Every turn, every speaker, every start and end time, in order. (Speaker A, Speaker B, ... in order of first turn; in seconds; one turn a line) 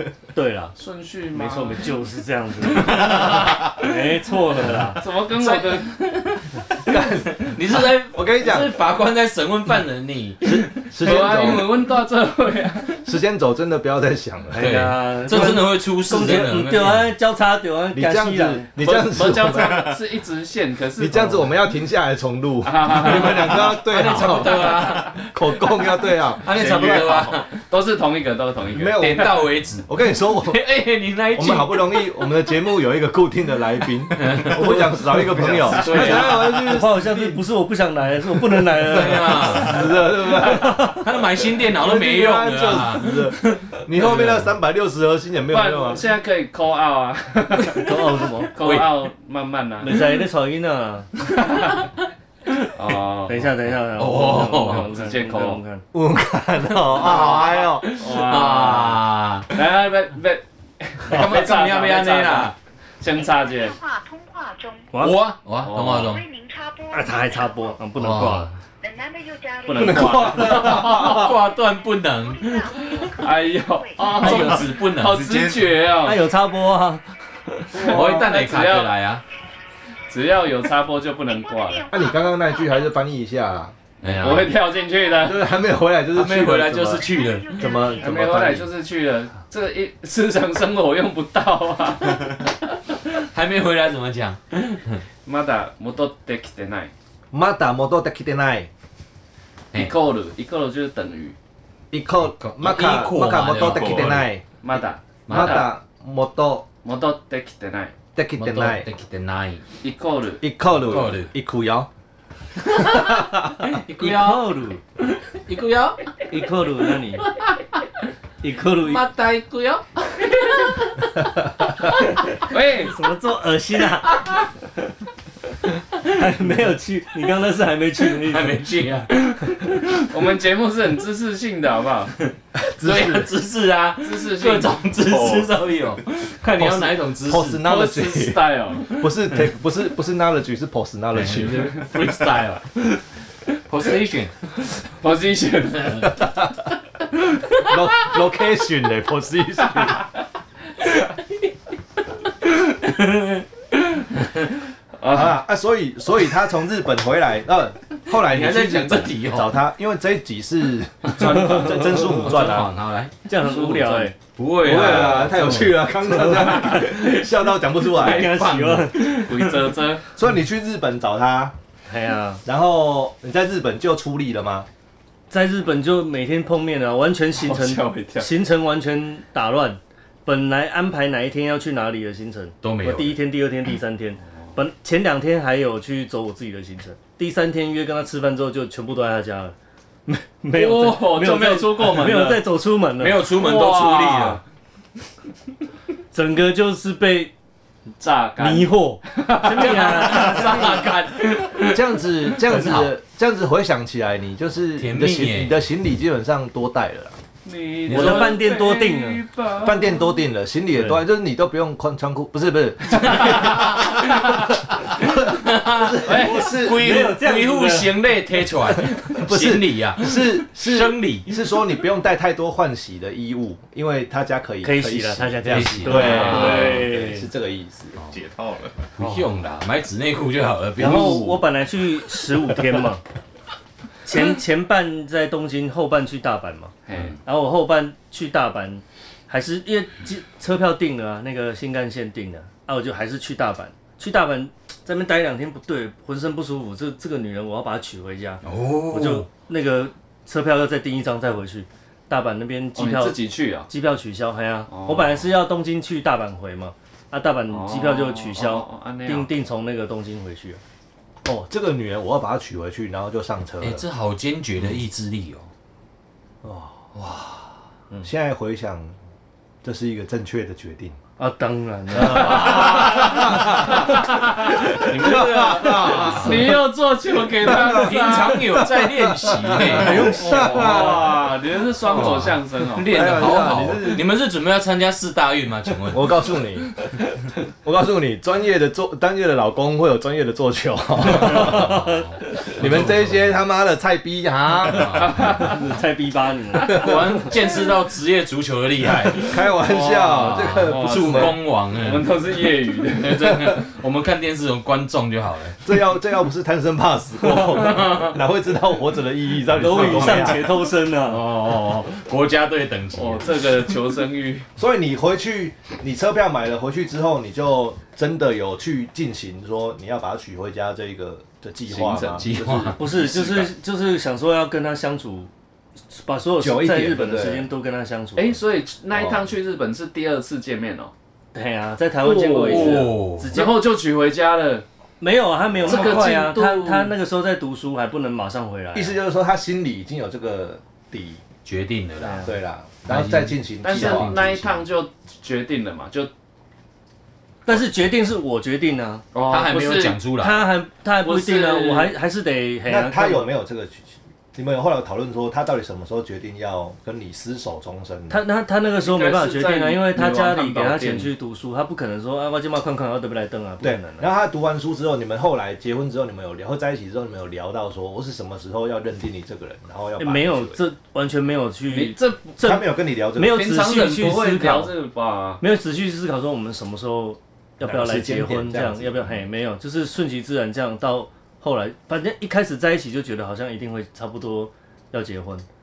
Speaker A: 0.3-0.8
Speaker B: 0.8-1.9
Speaker A: 1.3-5.0
Speaker C: 2.9-3.7
Speaker B: 5.0-6.0
Speaker C: 5.3-11.7
Speaker D: 6.8-8.8
Speaker D: 10.4-11.8
Speaker B: 10.9-13.0
Speaker D: 13.0-14.8
Speaker A: 14.5-18.7
Speaker C: 14.5-17.1
Speaker D: 17.9-19.9
Speaker B: 18.8-21.6
Speaker E: 19.5-19.9
Speaker D: 21.0-27.0
Speaker B: 22.6-24.8
Speaker C: 23.2-25.3
Speaker C: 26.4-27.5
Speaker E: 26.5-27.4
Speaker B: 27.5-29.4
Speaker D: 28.7-30.6
Speaker C: 28.9-32.1
Speaker D: 31.3-37.4
Speaker C: 34.1-36.8
Speaker E: 35.5-35.8
Speaker A: 36.5-39.9
Speaker C: 38.8-39.9
Speaker D: 38.9-41.0
Speaker A: 40.4-41.0
Speaker C: 40.5-44.4
Speaker D: 41.6-46.0
Speaker B: 45.5-50.0
Speaker A: 47.8-48.5
Speaker C: 48.5-48.9
Speaker A: 49.8-51.1
Speaker B: 52.7-53.5
Speaker A: 53.3-55.8
Speaker C: 54.0-54.9
Speaker B: 54.6-55.6
Speaker D: 55.9-57.9
Speaker B: 56.9-63.8
Speaker C: 57.0-59.5
Speaker C: 61.0-62.5
Speaker F: 63.1-64.9
Speaker A: 64.9-65.2
Speaker C: 65.0-66.2
Speaker B: 65.6-66.1
Speaker F: 65.9-67.8
Speaker A: 66.9-68.5
Speaker C: 68.0-68.5
Speaker F: 68.8-70.6
Speaker B: 69.6-71.0
Speaker D: 69.8-71.3
Speaker C: 70.3-73.2
Speaker F: 71.5-74.2
Speaker B: 73.1-76.2
Speaker C: 74.0-75.2
Speaker E: 74.2-75.8
Speaker A: 76.0-77.0
Speaker B: 77.7-78.9
Speaker D: 77.7-78.3
Speaker C: 77.7-79.2
Speaker B: 80.1-81.9
Speaker F: 81.3-82.9
Speaker D: 81.9-83.7
Speaker C: 84.0-84.5
Speaker B: 84.0-85.5
Speaker F: 84.4-85.3
Speaker D: 85.2-88.7
Speaker C: 86.1-87.7
Speaker F: 86.9-88.1
Speaker B: 87.9-92.4
Speaker C: 93.1-95.0
Speaker B: 95.2-96.9
Speaker D: 97.3-98.7
Speaker B: 99.7-101.3
Speaker D: 101.9-104.4
Speaker C: 102.2-104.2
Speaker E: 103.5-104.2
Speaker B: 104.6-105.7
Speaker C: 105.3-105.7
Speaker D: 105.3-106.7
Speaker B: 106.8-107.9
Speaker D: 108.1-108.9
Speaker C: 108.4-109.6
Speaker B: 109.8-110.4
Speaker D: 110.4-111.9
Speaker C: 110.7-111.3
Speaker C: 112.6-114.5
Speaker D: 112.8-113.6
Speaker A: 114.0-114.8
Speaker C: 115.0-116.1
Speaker A: 116.3-117.2
Speaker C: 117.2-117.6
Speaker A: 118.4-119.0
Speaker C: 118.8-121.2
Speaker B: 122.3-122.9
Speaker A: 122.7-124.2
Speaker A: 126.1-128.6
Speaker C: 128.2-130.1
Speaker B: 130.1-132.2
Speaker D: 132.6-133.3
Speaker C: 132.8-137.6
Speaker B: 134.0-134.8
Speaker E: 134.9-135.6
Speaker D: 136.6-141.8
Speaker B: 137.6-138.8
Speaker C: 141.1-142.7
Speaker C: 143.7-144.3
Speaker B: 144.9-146.2
Speaker D: 147.6-150.0
Speaker C: 152.8-153.4
Speaker B: 155.0-155.4
Speaker D: 155.1-162.7
Speaker C: 158.1-159.6
Speaker C: 161.1-167.0
Speaker A: 163.2-164.1
Speaker D: 164.6-168.5
Speaker A: 165.3-166.7
Speaker A: 167.9-169.2
Speaker C: 168.0-169.7
Speaker B: 168.9-170.0
Speaker D: 170.1-171.5
Speaker A: 171.9-172.4
Speaker D: 172.4-174.7
Speaker A: 175.3-189.5
Speaker B: 177.3-178.3
Speaker C: 182.6-183.2
Speaker A: 190.1-193.2
Speaker B: 190.5-192.4
Speaker C: 193.0-194.4
Speaker B: 193.2-194.4
Speaker A: 196.1-197.3
Speaker B: 198.0-200.9
Speaker A: 198.4-200.8
Speaker C: 199.5-202.9
Speaker D: 201.7-207.2
Speaker C: 204.8-205.6
Speaker B: 207.4-210.0
Speaker C: 207.9-208.4
Speaker A: 207.9-209.2
Speaker D: 209.5-217.0
Speaker A: 210.7-211.0
Speaker C: 213.1-221.4
Speaker B: 216.0-216.5
Speaker A: 216.6-217.9
Speaker D: 219.1-228.0
Speaker A: 224.6-227.3
Speaker C: 225.5-226.8
Speaker B: 225.9-226.7
Speaker E: 228.1-228.9
Speaker C: 228.9-231.4
Speaker A: 230.8-233.0
Speaker A: 234.0-236.7
Speaker B: 236.8-237.2
Speaker A: 237.2-260.6
Speaker C: 248.4-249.3
Speaker B: 252.7-253.7
Speaker B: 254.7-255.2
Speaker B: 257.5-259.3
Speaker D: 261.2-263.8
Speaker C: 263.6-265.5
Speaker D: 266.4-266.9
Speaker C: 266.9-267.3
Speaker D: 268.0-268.9
Speaker D: 269.6-271.0
Speaker A: 271.2-273.1
Speaker D: 271.9-276.6
Speaker B: 272.1-274.4
Speaker C: 274.4-276.6
Speaker B: 275.9-278.4
Speaker D: 277.4-281.3
Speaker C: 277.4-280.2
Speaker A: 279.6-280.9
Speaker B: 279.8-283.5
Speaker C: 281.8-286.1
Speaker D: 281.9-282.3
Speaker D: 282.8-284.1
Speaker D: 285.9-286.7
Speaker D: 287.6-295.3
Speaker C: 291.1-293.4
Speaker C: 294.6-295.4
Speaker B: 295.0-295.5
Speaker A: 295.3-297.3
Speaker D: 296.7-297.0
Speaker C: 296.7-299.5
Speaker D: 299.1-301.4
Speaker B: 299.6-303.6
Speaker C: 300.0-302.2
Speaker C: 302.9-305.6
Speaker D: 305.6-310.5
Speaker C: 307.4-308.1
Speaker A: 309.5-311.2
Speaker C: 309.7-310.5
Speaker C: 311.0-313.4
Speaker B: 312.9-314.5
Speaker D: 314.6-322.7
Speaker B: 321.7-322.2
Speaker C: 322.2-323.5
Speaker A: 322.7-325.3
Speaker A: 325.9-328.4
Speaker D: 326.4-327.5
Speaker B: 328.1-330.9
Speaker A: 331.3-333.6
Speaker B: 332.0-334.6
Speaker C: 332.4-333.4
Speaker A: 335.0-338.9
Speaker B: 335.6-336.9
Speaker D: 338.7-341.2
Speaker C: 341.4-342.4
Speaker A: 342.0-342.3
Speaker D: 342.2-344.6
Speaker C: 342.9-344.5
Speaker B: 343.6-346.1
Speaker A: 347.4-349.0
Speaker B: 349.1-350.0
Speaker C: 349.3-350.5
Speaker A: 350.2-353.3
Speaker B: 351.0-351.9
Speaker D: 352.6-358.2
Speaker A: 358.1-364.1
Speaker B: 358.8-361.1
Speaker D: 363.6-370.6
Speaker A: 370.0-374.7
Speaker B: 371.7-372.4
Speaker D: 372.4-373.4
Speaker B: 373.3-375.4
Speaker A: 375.4-385.4
Speaker D: 377.6-379.2